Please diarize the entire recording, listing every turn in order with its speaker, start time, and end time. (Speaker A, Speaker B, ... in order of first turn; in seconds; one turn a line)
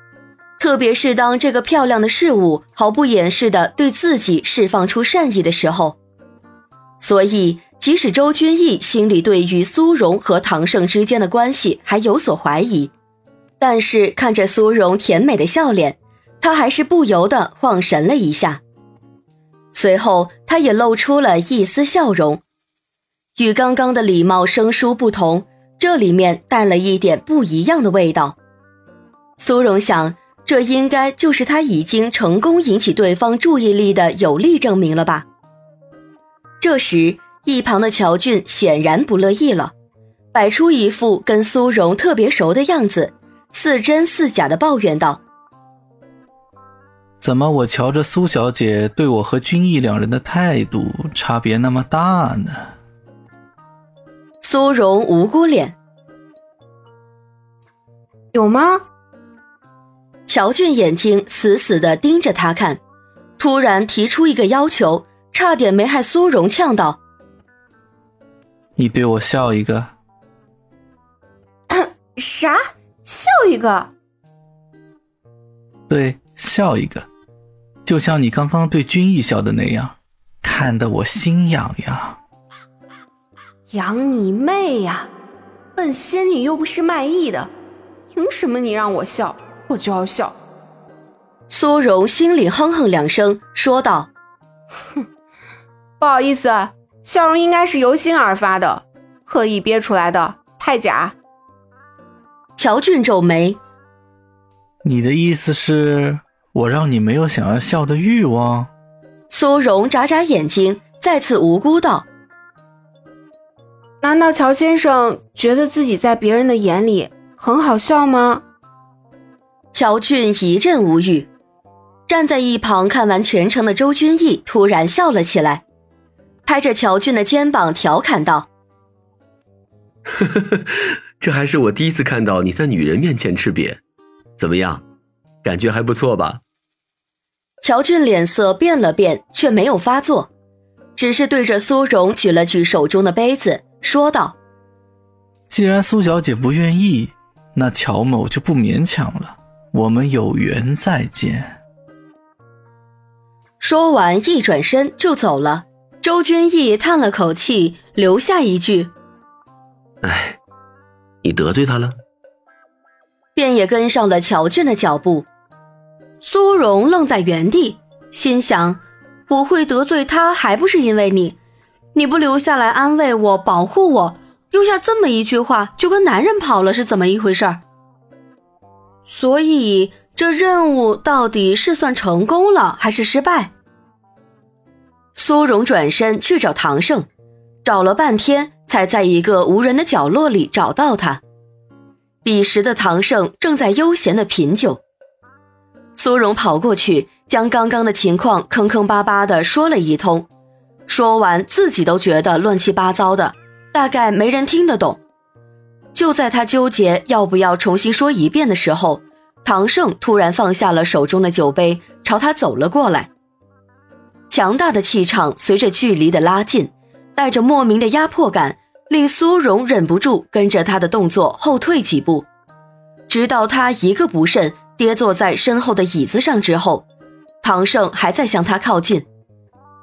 Speaker A: 0.6-6.0
Speaker A: 7.0-12.9
Speaker A: 13.6-18.6
Speaker A: 19.7-22.4
Speaker A: 23.4-28.4
Speaker A: 29.4-35.2
Speaker A: 36.6-39.7
Speaker A: 40.3-45.2
Speaker B: 47.2-52.7
Speaker A: 54.4-55.8
Speaker C: 58.3-58.8
Speaker A: 60.3-62.8
Speaker A: 63.4-67.0
Speaker B: 68.8-69.9
Speaker C: 71.7-73.9
Speaker B: 75.9-77.1
Speaker B: 77.9-82.2
Speaker C: 83.7-85.1
Speaker C: 85.8-87.5
Speaker C: 88.1-90.4
Speaker A: 91.5-94.1
Speaker C: 96.0-101.2
Speaker A: 102.6-103.6
Speaker B: 104.8-108.7
Speaker A: 109.3-112.1
Speaker C: 114.0-118.4
Speaker A: 119.7-121.3
Speaker A: 122.1-125.6
Speaker A: 126.5-128.5
Speaker D: 130.2-133.8
Speaker D: 134.4-134.8
Speaker D: 135.4-136.4
Speaker A: 137.6-140.3
Speaker A: 141.0-144.3
Speaker B: 145.5-151.5
Speaker A: 153.6-158.9
Speaker D: 160.0-160.4
Speaker D: 161.2-162.0
Speaker A: 163.3-165.3
Speaker A: 166.2-171.4
Speaker A: 171.9-177.6
Speaker A: 179.1-183.5
Speaker A: 185.2-187.1
Speaker A: 187.6-191.2
Speaker A: 192.2-194.8
Speaker A: 196.0-200.3
Speaker A: 200.9-205.0
Speaker A: 205.9-213.1
Speaker A: 214.3-222.3
Speaker A: 223.1-226.8
Speaker A: 227.4-229.1